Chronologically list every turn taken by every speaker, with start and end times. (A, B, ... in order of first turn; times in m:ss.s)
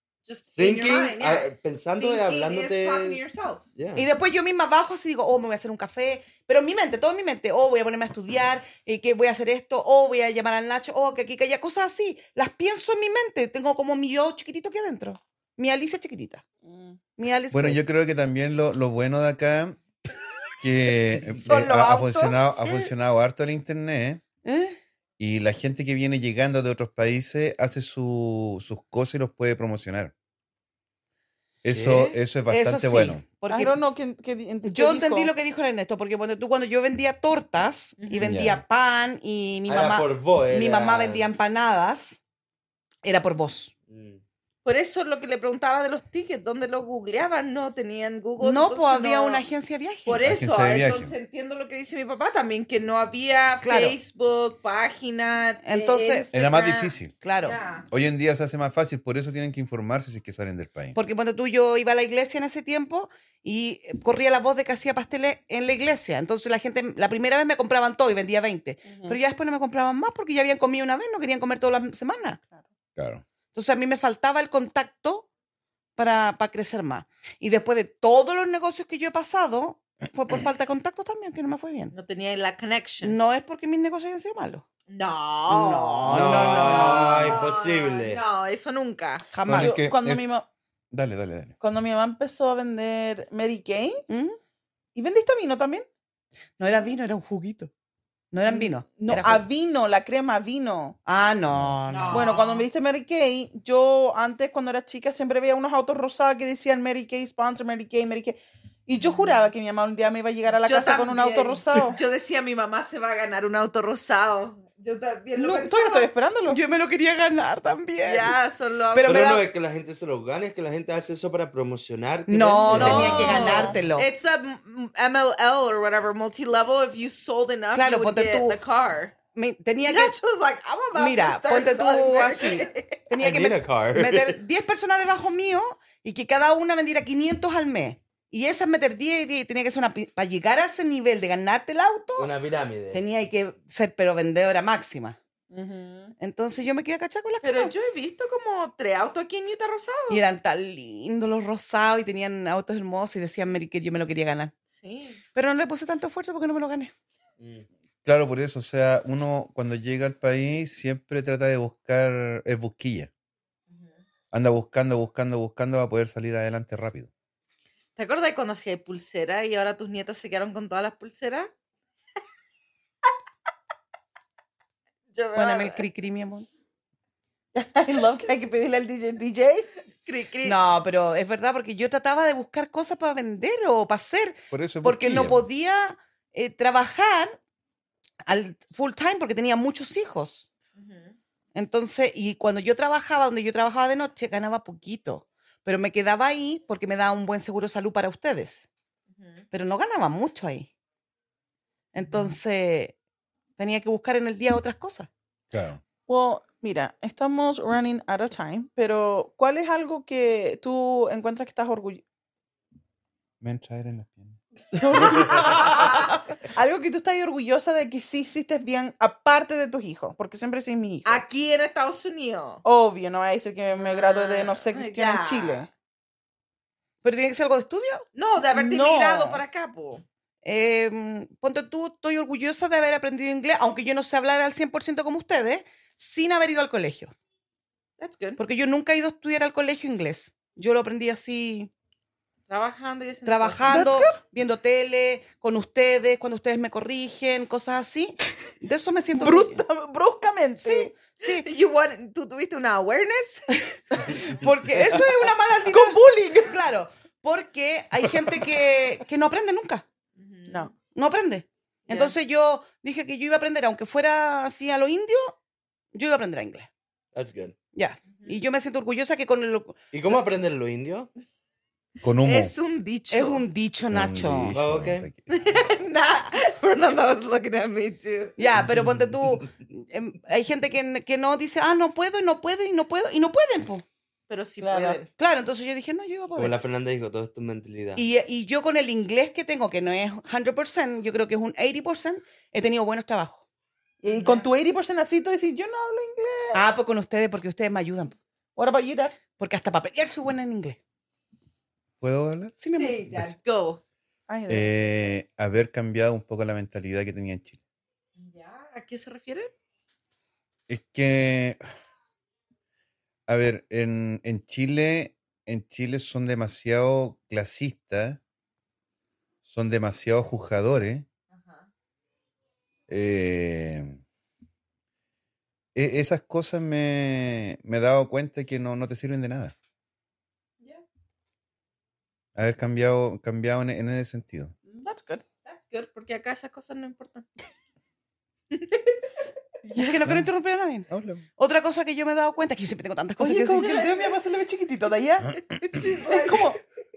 0:00.3-0:03.6 A
0:00.6-0:03.2 B
0:03.8-0:04.1 B
0:04.0-0:16.4 C
0:16.7-0:17.0 D
0:17.2-0:17.8 C
0:17.5-0:19.8 E
0:20.6-0:24.2 E
0:21.4-0:22.8 A
0:24.4-0:24.8 C
0:25.2-0:30.1 E
0:31.6-0:33.2 E
0:31.7-0:32.2 B
0:32.5-0:33.8 C
0:33.5-0:35.3 D
0:34.6-0:42.2 C
0:38.0-0:38.3 A
0:38.2-0:38.6 E
0:39.7-0:41.3 B
0:43.0-0:43.7 C
0:43.9-0:44.2 B
0:44.6-0:49.4 A
0:48.4-0:50.3 C
0:50.1-0:57.8 A
0:50.2-0:51.1 E
0:53.6-0:54.0 C
0:55.6-0:56.3 C
0:56.3-0:57.1 E
0:57.2-0:57.6 C
0:57.9-1:01.0 E
1:01.0-1:12.4 C
1:08.9-1:09.2 D
1:13.0-1:13.2 E
1:13.5-1:15.3 C
1:16.0-1:21.9 C
1:21.9-1:23.2 A
1:23.0-1:24.6 C
1:24.9-1:29.3 A
1:25.5-1:27.4 C
1:26.1-1:28.2 B
1:29.3-1:29.8 C
1:29.5-1:30.2 E
1:29.5-1:30.5 D
1:30.9-1:31.6 E
1:31.6-1:34.0 D
1:34.1-1:34.4 C
1:35.0-1:35.9 D
1:36.6-1:37.7 C
1:38.3-1:39.4 C
1:38.5-1:41.0 D
1:41.1-1:42.3 C
1:41.9-1:42.7 A
1:42.1-1:52.0 D
1:50.6-1:56.1 A
1:55.4-1:56.6 D
1:56.5-1:58.4 C
1:58.0-1:59.4 A
1:58.9-1:59.4 C
1:59.0-2:03.7 B
2:02.3-2:04.1 C
2:02.7-2:09.1 A
2:03.0-2:03.8 D
2:07.7-2:08.6 C
2:09.3-2:10.2 C
2:09.9-2:13.0 A
2:10.9-2:22.3 C
2:13.2-2:14.4 B
2:22.2-2:23.0 B
2:22.9-2:25.2 C
2:25.5-2:26.2 D
2:26.2-2:27.7 C
2:27.4-2:30.2 A
2:30.1-2:34.5 C
2:34.8-2:35.2 A
2:35.3-2:36.9 C
2:37.4-2:37.7 B
2:38.0-2:43.1 E
2:43.7-2:44.0 A
2:44.3-2:47.1 E
2:48.0-2:51.5 A
2:55.1-2:55.8 A
2:55.4-2:56.5 C
2:57.6-2:59.7 D
3:00.0-3:00.6 A
3:00.4-3:07.4 C
3:04.5-3:05.5 E
3:08.2-3:10.5 C
3:10.8-3:11.2 A
3:11.6-3:18.7 C
3:19.1-3:19.4 A
3:19.5-3:20.7 C
3:21.9-3:22.9 C
3:23.6-3:25.1 C
3:25.5-3:25.8 E
3:26.1-3:32.0 D
3:33.4-3:35.4 E
3:34.8-3:41.2 D
3:35.2-3:36.0 A
3:41.0-3:42.6 A
3:42.6-3:45.7 D
3:43.7-3:45.7 A
3:47.0-3:48.1 C
3:48.1-3:50.0 A
3:48.5-3:49.4 D
3:50.4-3:57.1 C
3:58.0-3:58.4 A
3:58.4-4:01.7 C
4:02.5-4:03.8 A
4:03.3-4:09.6 C
4:03.7-4:04.2 D
4:09.2-4:10.9 D
4:10.6-4:11.4 C
4:11.2-4:13.6 A
4:14.2-4:19.8 C
4:14.8-4:16.5 D
4:20.2-4:20.7 A
4:20.9-4:25.4 C
4:21.9-4:22.2 A
4:26.0-4:26.7 C
4:27.1-4:27.6 B
4:27.7-4:29.9 C
4:28.1-4:28.4 A
4:29.9-4:31.1 B
4:32.0-4:32.5 E
4:32.2-4:33.4 A
4:33.1-4:34.5 C
4:33.9-4:35.3 E
4:34.5-4:35.1 B
4:35.3-4:38.4 A
4:38.4-4:43.8 C
4:44.3-4:45.1 A
4:44.6-4:45.0 D
4:45.2-4:46.6 C
4:46.4-4:48.0 B
4:48.0-4:53.4 C
4:54.0-4:56.6 D
4:54.0-4:54.5 A
4:56.5-4:58.2 C
4:58.6-4:59.2 D
4:59.4-5:00.8 C
5:02.0-5:02.6 E
5:02.6-5:03.0 C
5:02.8-5:03.8 A
5:04.3-5:04.7 D
5:04.5-5:07.6 E
5:08.2-5:09.5 A
5:10.7-5:11.6 E
5:13.3-5:18.2 E
5:19.4-5:21.1 E
5:21.3-5:21.7 A
5:22.9-5:24.0 E
5:25.8-5:29.6 E
5:32.4-5:34.5 E
5:34.7-5:35.2 D
5:35.4-5:37.3 A
5:38.5-5:38.9 A
5:39.6-5:40.2 D
5:39.8-5:44.0 C
5:40.0-5:40.3 E
5:40.9-5:41.3 E
5:43.2-5:45.4 D
5:45.5-5:46.6 A
5:46.0-5:46.6 D